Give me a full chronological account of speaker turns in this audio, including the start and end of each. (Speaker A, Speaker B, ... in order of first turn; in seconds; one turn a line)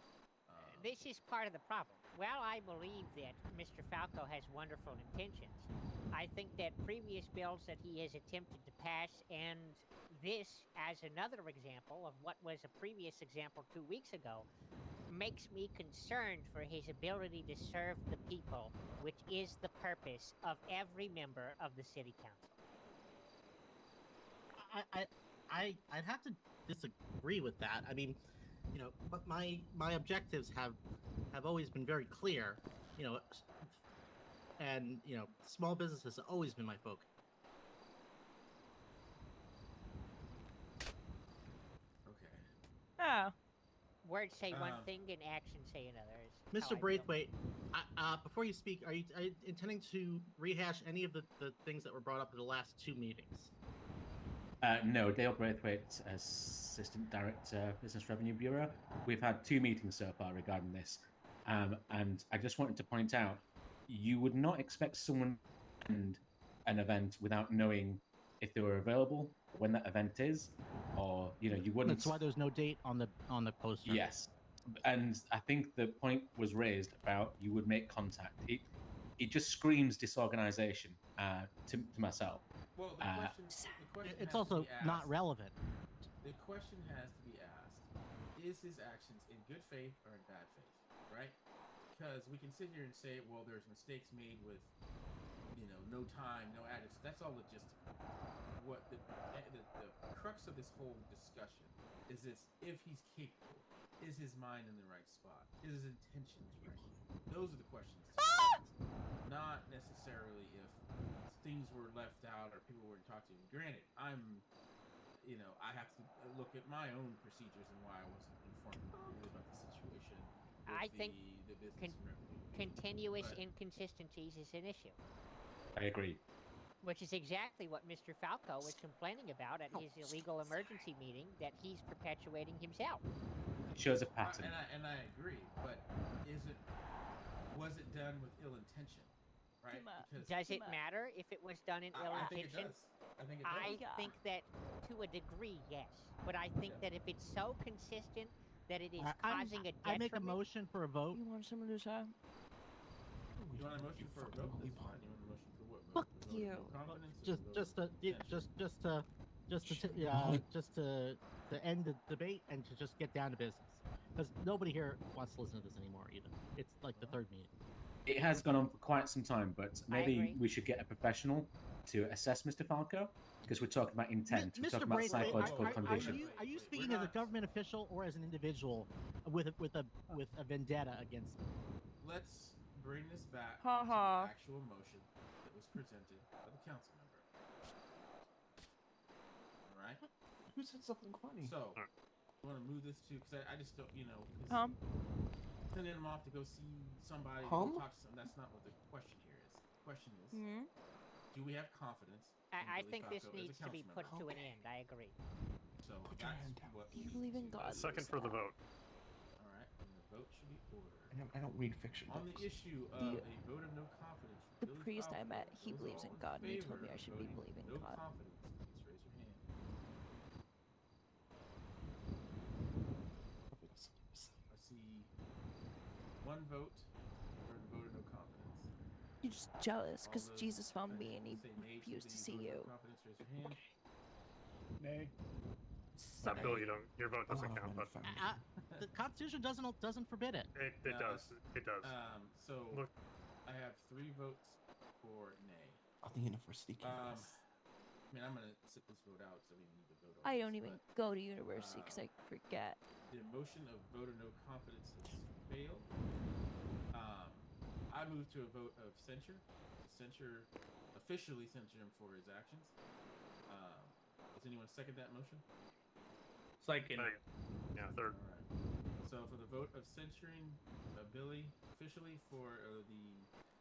Speaker A: 0.5-1.0
Speaker B: 0.6-14.5
Speaker B: 15.1-22.6
Speaker C: 24.5-28.2
Speaker C: 28.7-30.8
Speaker C: 31.3-33.7
Speaker C: 34.6-37.1
Speaker A: 42.1-42.4
Speaker D: 43.0-43.3
Speaker B: 44.0-47.1
Speaker A: 44.5-44.9
Speaker C: 46.5-53.5
Speaker E: 54.6-72.2
Speaker C: 71.8-74.1
Speaker E: 73.8-74.3
Speaker E: 74.8-82.4
Speaker A: 82.8-85.2
Speaker E: 83.0-83.3
Speaker D: 83.5-83.8
Speaker C: 84.0-85.5
Speaker A: 86.2-91.4
Speaker A: 91.9-94.7
Speaker A: 95.5-97.8
Speaker A: 98.5-108.7
Speaker F: 106.6-106.9
Speaker D: 108.2-108.5
Speaker A: 109.2-114.5
Speaker A: 115.2-123.4
Speaker F: 118.7-119.4
Speaker B: 120.7-121.2
Speaker B: 122.5-125.0
Speaker E: 125.8-126.2
Speaker B: 126.8-133.0
Speaker F: 129.7-130.9
Speaker E: 133.7-134.6
Speaker A: 134.2-136.6
Speaker A: 137.5-140.4
Speaker D: 139.7-140.8
Speaker B: 140.2-142.7
Speaker A: 141.9-143.8
Speaker B: 143.4-150.4
Speaker D: 143.6-144.2
Speaker A: 146.6-146.9
Speaker C: 149.0-151.2
Speaker D: 149.3-149.7
Speaker D: 151.1-152.1
Speaker F: 153.4-155.1
Speaker A: 153.5-158.5
Speaker D: 156.2-156.8
Speaker C: 157.1-167.5
Speaker F: 159.6-160.4
Speaker A: 166.9-167.2
Speaker E: 168.1-176.3
Speaker B: 169.9-170.4
Speaker C: 174.3-181.4
Speaker A: 174.9-177.4
Speaker A: 182.0-187.3
Speaker D: 183.6-184.3
Speaker A: 189.7-190.0
Speaker F: 190.5-191.6
Speaker A: 191.4-191.8
Speaker A: 192.4-194.7
Speaker D: 194.5-194.8
Speaker A: 195.7-200.4
Speaker F: 197.4-197.9
Speaker D: 200.3-200.7
Speaker A: 201.3-204.2
Speaker B: 202.5-205.2
Speaker F: 204.0-204.6
Speaker A: 205.8-208.1
Speaker F: 206.0-207.0
Speaker D: 206.9-208.4
Speaker G: 207.8-208.5
Speaker A: 209.4-211.2
Speaker F: 211.1-212.6
Speaker A: 212.1-219.4
Speaker D: 212.9-213.3
Speaker D: 214.6-218.0
Speaker F: 223.5-224.4
Speaker A: 224.5-225.1
Speaker A: 226.2-226.9
Speaker A: 227.4-228.7
Speaker D: 229.2-232.7
Speaker A: 230.0-233.6
Speaker F: 233.4-233.7
Speaker D: 236.0-236.5
Speaker A: 236.2-236.8
Speaker F: 236.3-236.7
Speaker G: 236.4-238.0
Speaker F: 237.3-238.4
Speaker C: 238.0-240.5
Speaker G: 240.6-242.0
Speaker A: 240.8-242.9
Speaker A: 243.4-245.8
Speaker F: 246.0-247.4
Speaker A: 246.8-247.4
Speaker A: 248.1-250.8
Speaker D: 250.2-252.8
Speaker A: 251.5-252.1
Speaker A: 253.1-255.9
Speaker A: 256.9-262.8
Speaker A: 263.5-265.4
Speaker C: 266.6-267.1
Speaker G: 266.9-267.2
Speaker G: 267.8-268.2
Speaker A: 267.8-268.5
Speaker A: 269.0-273.3